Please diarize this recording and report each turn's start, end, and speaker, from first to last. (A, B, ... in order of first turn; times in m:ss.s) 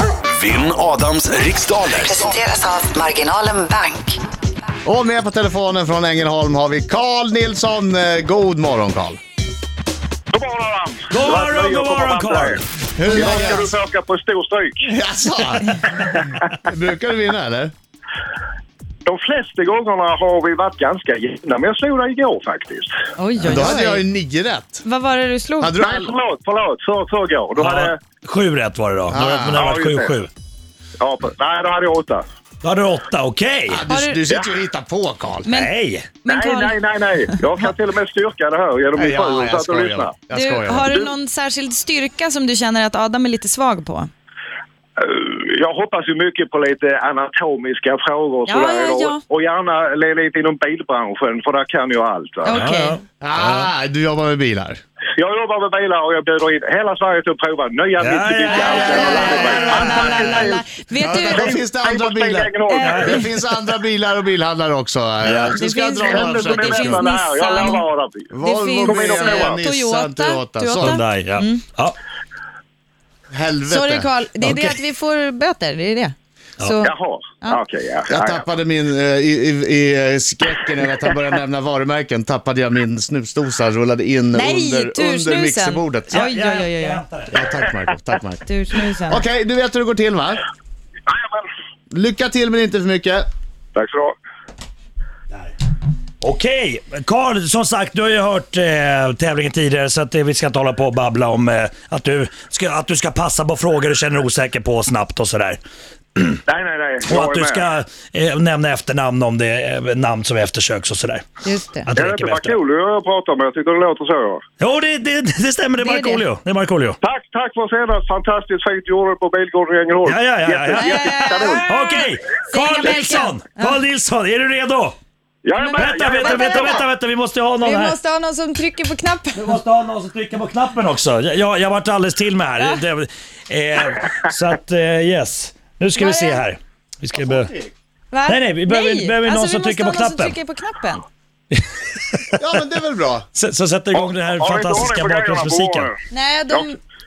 0:00.3-0:02.4 A
0:02.0-0:04.2 B
0:04.8-0:09.2 C
0:10.3-0:14.8 D
0:11.1-0:12.6 E
0:13.0-0:13.7 C
0:14.8-0:17.7 C
0:19.0-0:23.0 D
0:23.2-0:24.0 F
0:23.4-0:24.8 C
0:24.8-0:25.8 F
0:25.6-0:26.1 C
0:25.8-0:28.0 D
0:27.6-0:30.3 E
0:29.1-0:29.6 C
0:29.6-0:30.1 D
0:31.0-0:32.2 D
0:32.6-0:33.8 E
0:33.7-0:35.6 C
0:33.9-0:34.2 F
0:35.4-0:35.7 F
0:35.5-0:36.1 E
0:36.2-0:36.8 F
0:36.3-0:40.1 D
0:39.0-0:40.9 C
0:40.3-0:44.1 F
0:45.0-0:52.6 D
0:48.5-0:49.2 F
0:52.4-0:53.0 F
0:52.5-0:53.7 E
0:53.2-0:54.8 C
0:55.2-1:03.2 D
0:58.0-1:00.4 E
0:58.5-1:01.6 F
0:58.6-1:00.0 C
1:01.0-1:07.1 C
1:02.7-1:03.2 F
1:02.8-1:03.2 E
1:05.2-1:05.6 E
1:05.5-1:07.8 F
1:06.0-1:08.3 D
1:08.3-1:11.0 C
1:08.4-1:11.6 F
1:08.8-1:09.6 D
1:10.7-1:12.0 E
1:13.3-1:14.7 C
1:13.7-1:17.6 F
1:16.8-1:18.4 D
1:18.1-1:26.3 C
1:24.3-1:27.0 F
1:26.1-1:27.4 E
1:27.3-1:28.4 C
1:28.4-1:29.2 F
1:29.0-1:30.4 C
1:31.1-1:31.4 D
1:31.9-1:33.2 C
1:33.7-1:34.1 D
1:36.2-1:45.6 E
1:46.2-1:46.4 E
1:46.5-1:47.7 D
1:47.0-1:52.6 E
1:51.4-1:51.9 F
1:51.9-1:54.4 D
1:54.6-1:57.0 E
1:55.8-1:56.2 F
1:57.0-2:01.6 D
2:00.0-2:05.0 E
2:00.8-2:03.7 F
2:05.4-2:06.8 D
2:05.6-2:06.8 F
2:05.8-2:08.0 E
2:07.6-2:09.5 F
2:09.4-2:17.5 E
2:15.9-2:16.4 F
2:17.1-2:17.7 C
2:18.1-2:21.0 F
2:18.3-2:20.4 E
2:21.5-2:22.4 E
2:22.4-2:23.3 C
2:23.3-2:25.9 E
2:23.9-2:25.9 D
2:26.1-2:26.8 F